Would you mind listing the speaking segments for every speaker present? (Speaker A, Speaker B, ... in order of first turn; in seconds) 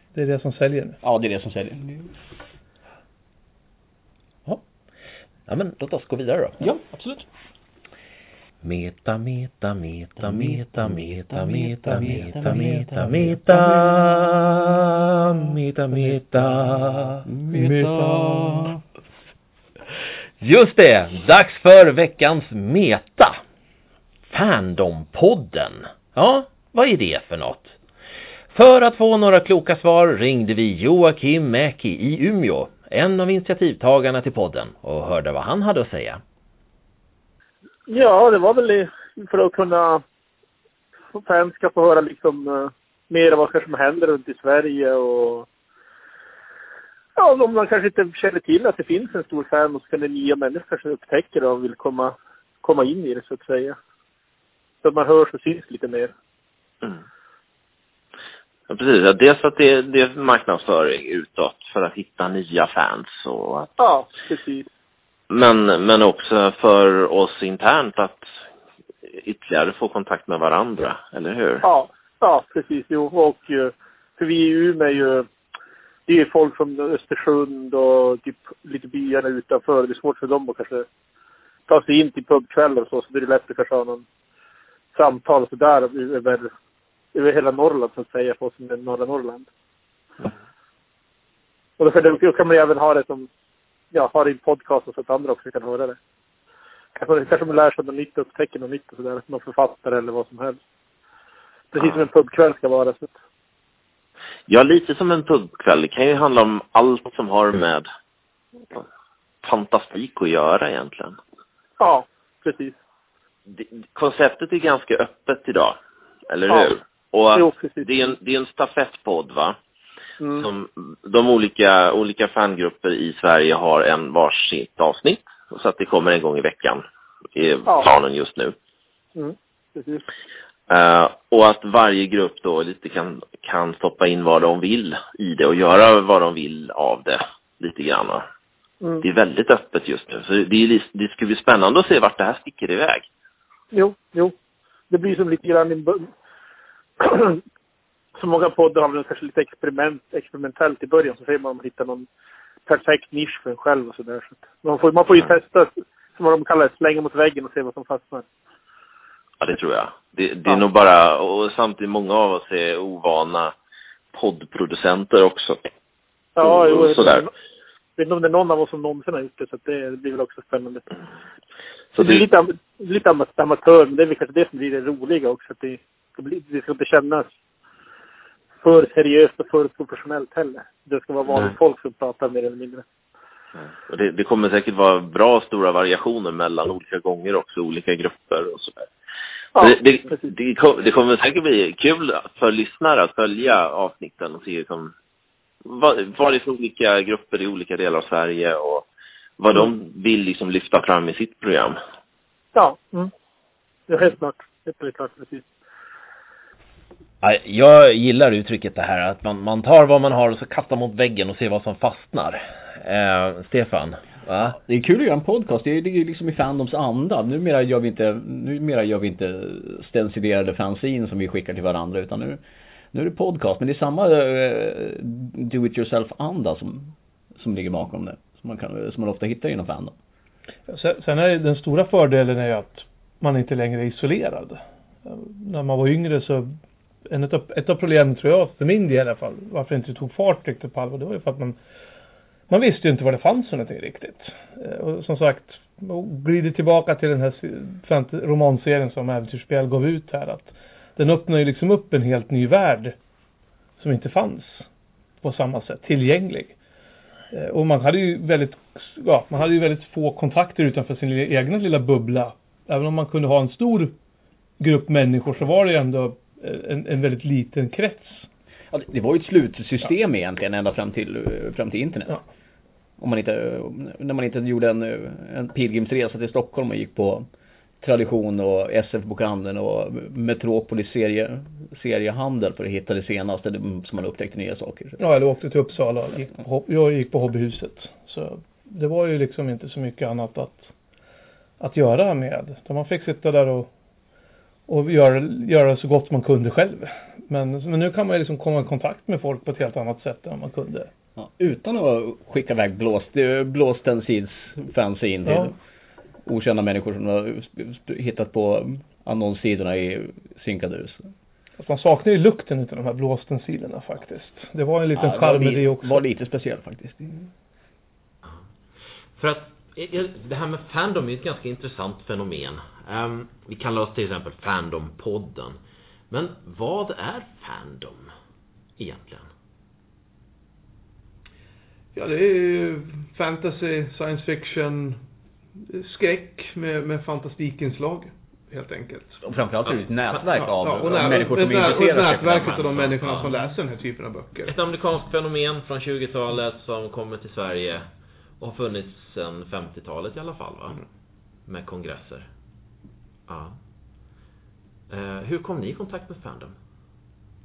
Speaker A: 0.1-1.0, 17.5-18.8, 230.7-236.6, 237.1-241.6, 242.5-252.9, 253.8-254.7, 255.2-256.6, 257.3-263.9, 264.6-268.3, 285.0-290.7, 291.6-293.7, 294.7-300.9, 305.3-305.5, 311.6-316.0, 331.9-335.0, 335.6-339.2, 340.4-344.5
Speaker B: 1.0-2.1, 6.6-7.3, 11.5-13.9, 17.2-18.8, 214.6-222.4, 222.9-229.9, 268.7-272.2, 273.0-277.3, 277.8-285.0, 301.2-305.5, 306.2-311.0, 315.0-317.3, 339.2-342.6
Speaker C: 5.5-6.6, 8.6-17.3, 20.4-23.4, 24.3-27.8, 28.5-36.2, 207.2-214.6, 319.2-325.6, 326.1-328.1, 328.8-329.3, 342.5-343.3, 344.5-347.9, 348.4-350.8, 351.5-352.3, 353.3-353.6, 354.9-356.6
Speaker D: 37.9-40.0, 41.1-45.5, 47.2-53.8, 54.8-56.1, 63.8-64.7, 71.6-75.3, 76.1-80.9, 81.7-84.0, 84.9-86.5, 87.1-89.5, 91.8-93.3, 93.9-96.0, 97.0-100.6, 101.7-103.1, 111.8-112.8, 117.3-117.9, 120.2-120.5, 129.2-130.0, 143.7-144.3, 144.9-146.1, 147.0-147.4, 148.2-152.1, 152.7-158.3, 166.4-167.3, 168.0-170.8, 171.9-177.3, 178.6-182.8, 189.6-190.2, 202.5-203.1, 203.9-205.4
Speaker E: 58.7-63.7, 65.3-68.2, 69.2-71.6, 104.5-107.8, 109.4-111.2, 113.6-115.8, 116.3-119.6, 120.3-126.8, 127.3-128.6, 130.7-138.2, 139.0-143.1, 159.4-163.5, 164.1-165.6, 166.4-167.2, 172.0-172.2, 183.9-188.9, 189.6-194.9, 195.7-198.8, 199.4-201.8